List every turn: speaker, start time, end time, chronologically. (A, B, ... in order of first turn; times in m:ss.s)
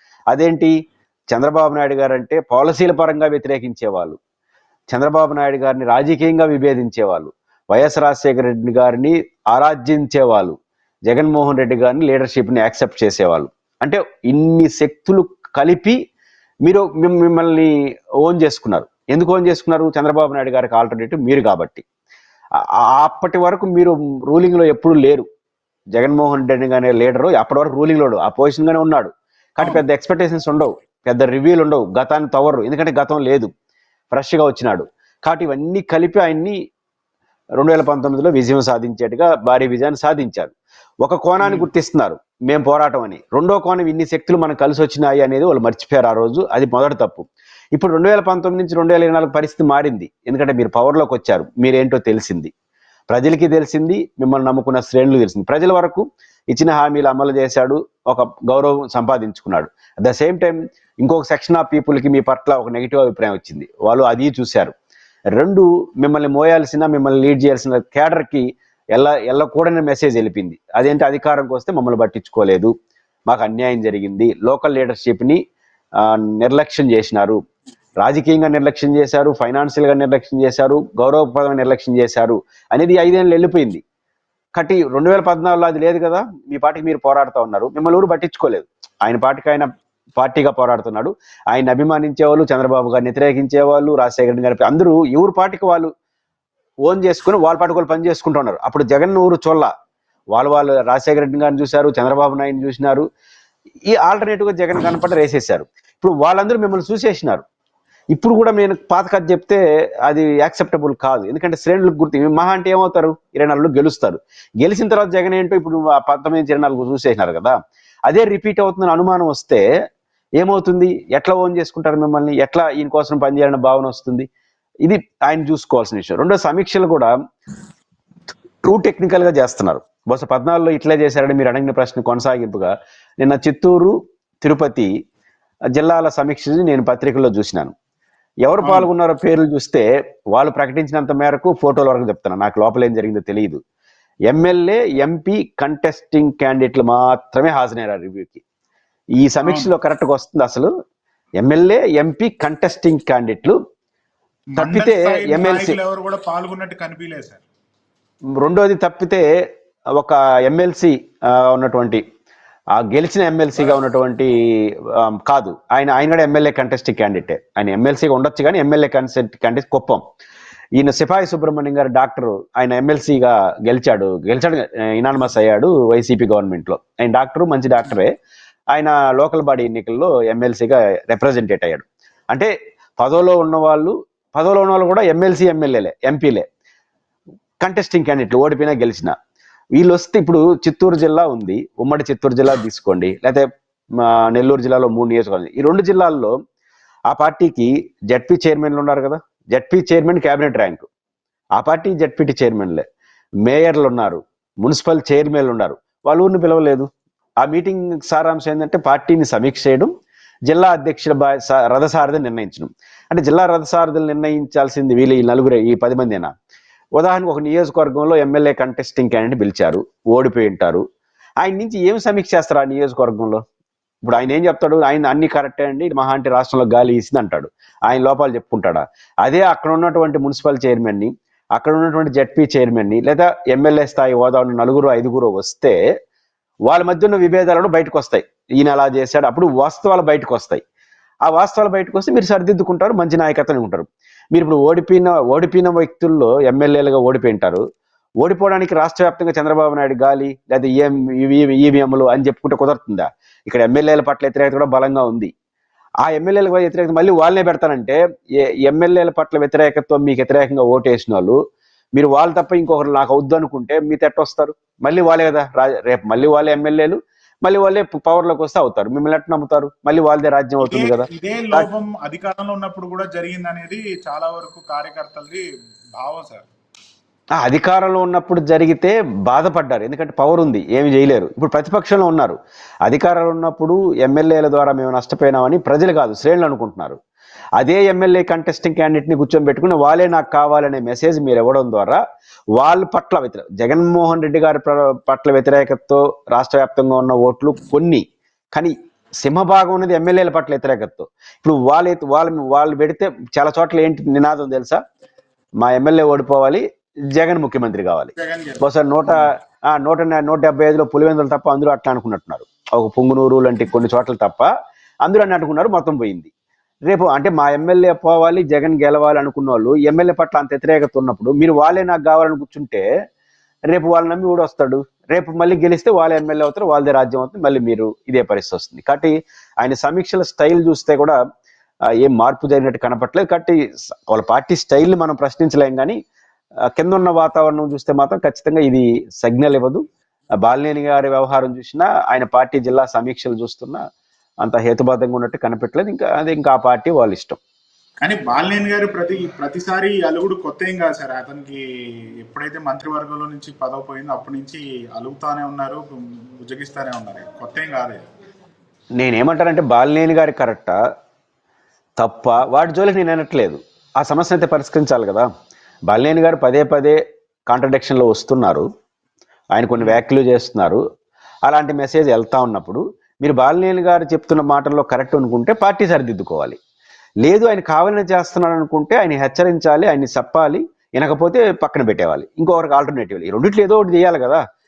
0:00.3-0:00.7 A
0:01.3-0:04.2 A
0:04.9-0:10.6 A
0:11.1-0:16.0 A
0:16.6-0:21.8 A
0:23.0-0:25.3 A
0:26.0-0:33.5 A
0:34.1-0:36.6 A
0:37.6-0:52.5 A
0:41.4-0:41.7 B
0:53.1-1:04.7 A
1:05.4-1:12.7 A
1:13.3-1:15.4 A
1:16.0-1:17.4 A
1:18.0-1:23.8 A
1:24.6-1:29.7 A
1:30.2-1:35.9 A
1:36.8-1:39.7 A
1:40.3-1:43.1 A
1:43.9-1:47.4 A
1:48.1-1:57.6 A
1:58.1-1:59.6 A
2:00.4-2:04.3 A
2:04.8-2:07.1 A
2:08.6-2:14.9 A
2:15.7-2:17.7 A
2:18.4-2:23.6 A
2:18.6-2:18.9 B
2:24.3-2:28.4 A
2:29.2-2:30.7 A
2:29.4-2:29.7 B
2:31.4-2:33.6 A
2:34.5-2:37.4 B
2:34.6-2:35.8 A
2:38.4-2:39.2 A
2:40.0-2:42.0 A
2:42.8-2:50.0 A
2:50.8-2:58.1 A
2:58.7-3:06.5 A
3:07.6-3:09.2 A
3:09.8-3:13.4 A
3:14.0-3:16.3 A
3:17.1-3:20.9 A
3:21.6-3:22.8 A
3:23.4-3:26.9 A
3:27.4-3:29.9 A
3:30.5-3:36.3 A
3:37.0-3:40.8 A
3:41.4-3:43.4 A
3:44.0-3:55.8 A
3:56.7-4:00.6 A
4:01.3-4:07.6 A
4:08.2-4:15.3 A
4:16.0-4:21.4 A
4:22.0-4:31.7 A
4:30.6-4:35.4 B
4:36.0-4:36.5 B
4:37.4-4:47.0 A
4:47.6-4:52.0 A
4:52.6-5:04.8 A
5:05.6-5:14.5 A
5:08.2-5:08.7 B
5:15.0-5:16.3 A
5:16.9-5:22.8 A
5:23.7-5:31.2 A
5:32.0-5:33.6 A
5:34.1-5:36.0 A
5:36.8-5:39.8 A
5:40.4-5:43.8 A
5:44.4-5:47.4 A
5:48.0-5:51.6 B
5:52.2-5:58.0 B
5:59.0-6:00.8 A
6:02.0-6:05.3 A
6:05.9-6:08.7 A
6:09.5-6:10.8 A
6:11.4-6:16.6 A
6:17.2-6:24.4 A